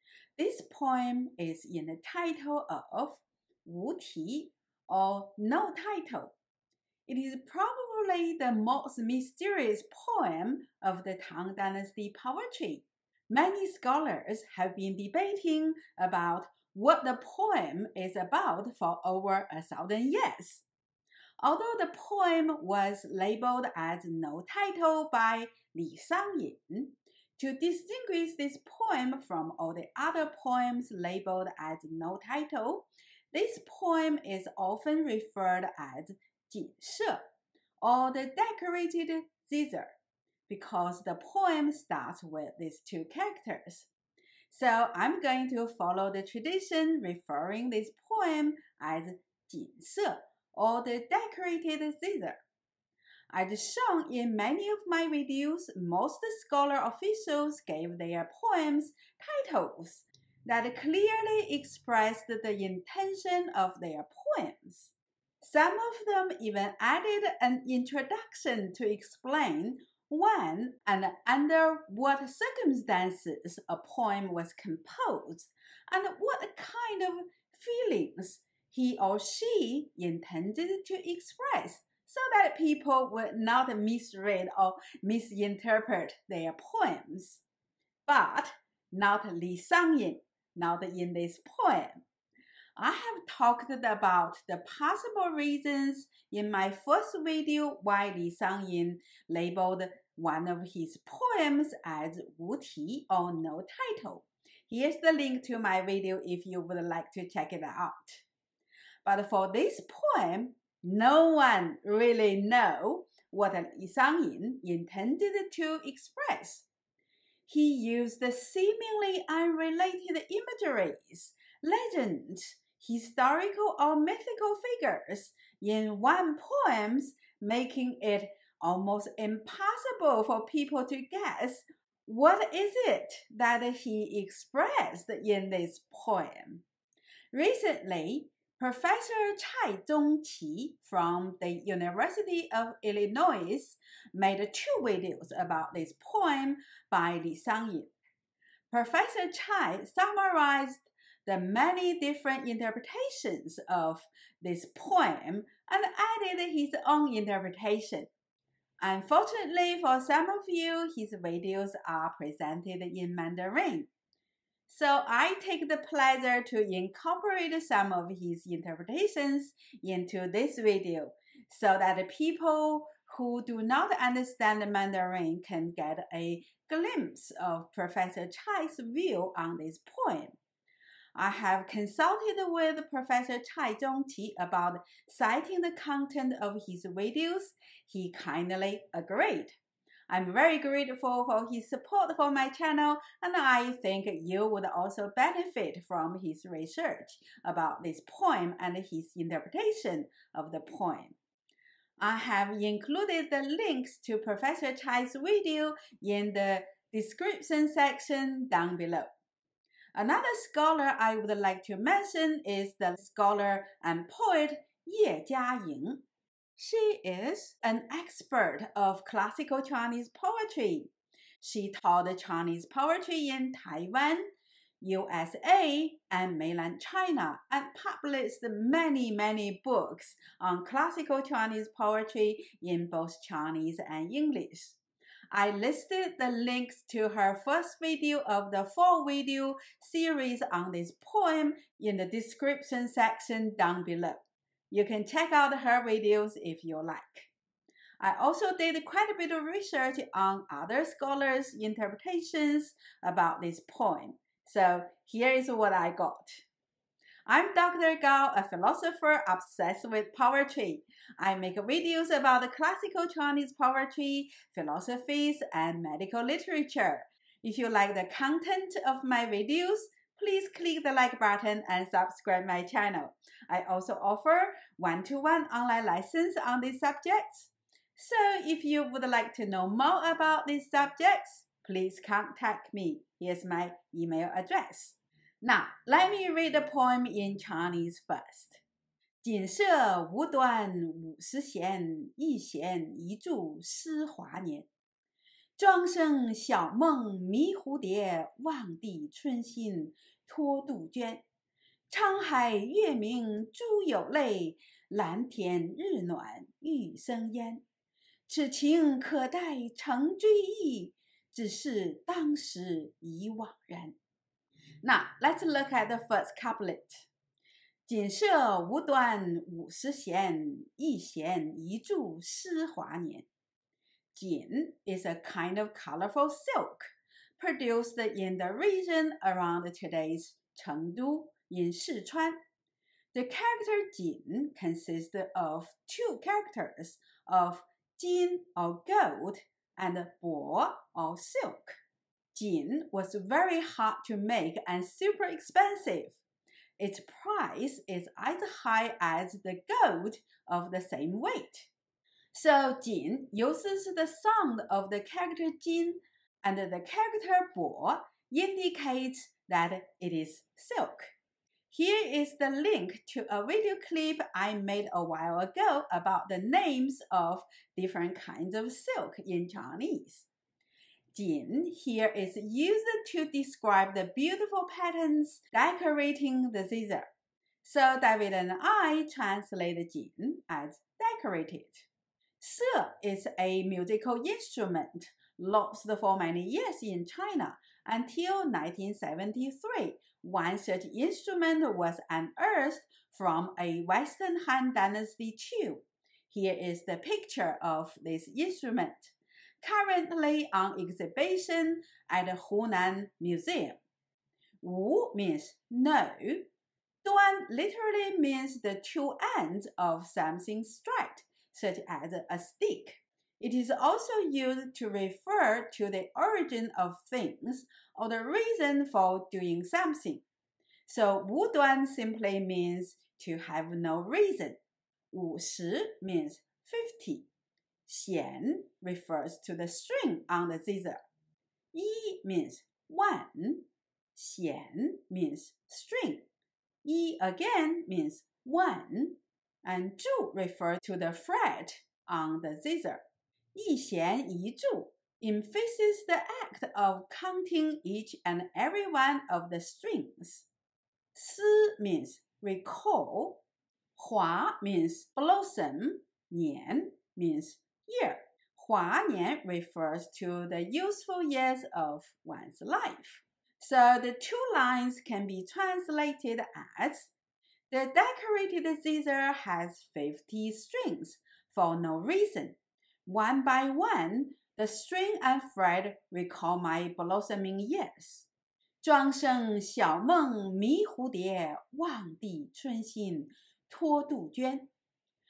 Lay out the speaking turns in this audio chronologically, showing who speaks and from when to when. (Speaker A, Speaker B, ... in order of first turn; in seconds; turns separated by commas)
Speaker A: 0.4-6.3, Speaker A: 7.1-20.6, Speaker A: 21.4-37.2, Speaker A: 37.8-40.0, Speaker A: 40.5-43.9, Speaker A: 44.5-52.4, Speaker A: 53.3-87.4, Speaker A: 88.1-92.0, Speaker A: 92.8-108.2, Speaker A: 109.0-116.7, Speaker A: 117.5-136.6, Speaker A: 137.3-147.9, Speaker A: 148.7-158.1, Speaker A: 158.8-163.9, Speaker A: 164.7-180.4, Speaker A: 181.2-189.6, Speaker A: 190.1-201.2, Speaker A: 202.0-209.1, Speaker A: 209.9-216.0, Speaker A: 216.6-224.3, Speaker A: 224.8-234.8, Speaker A: 235.3-247.3, Speaker A: 248.0-256.4, Speaker A: 257.3-288.6, Speaker A: 289.2-294.7, Speaker A: 295.6-301.2, Speaker A: 301.9-307.6, Speaker A: 308.3-313.9, Speaker A: 314.8-317.1, Speaker A: 317.9-323.3, Speaker A: 324.1-332.4, Speaker A: 333.1-341.8, Speaker A: 342.3-346.2, Speaker A: 346.8-351.7, Speaker A: 352.3-361.1, Speaker A: 361.7-370.3, Speaker A: 371.1-377.1, Speaker A: 377.6-381.9, Speaker A: 382.4-403.8, Speaker A: 404.6-406.5, Speaker A: 407.0-420.2, Speaker A: 420.9-424.6, Speaker A: 425.1-427.3, Speaker A: 427.9-431.0, Speaker A: 431.7-436.3, Speaker A: 436.8-443.0, Speaker A: 443.5-450.5, Speaker A: 451.1-453.4, Speaker A: 454.0-467.1, Speaker A: 467.7-478.3, Speaker A: 478.8-484.7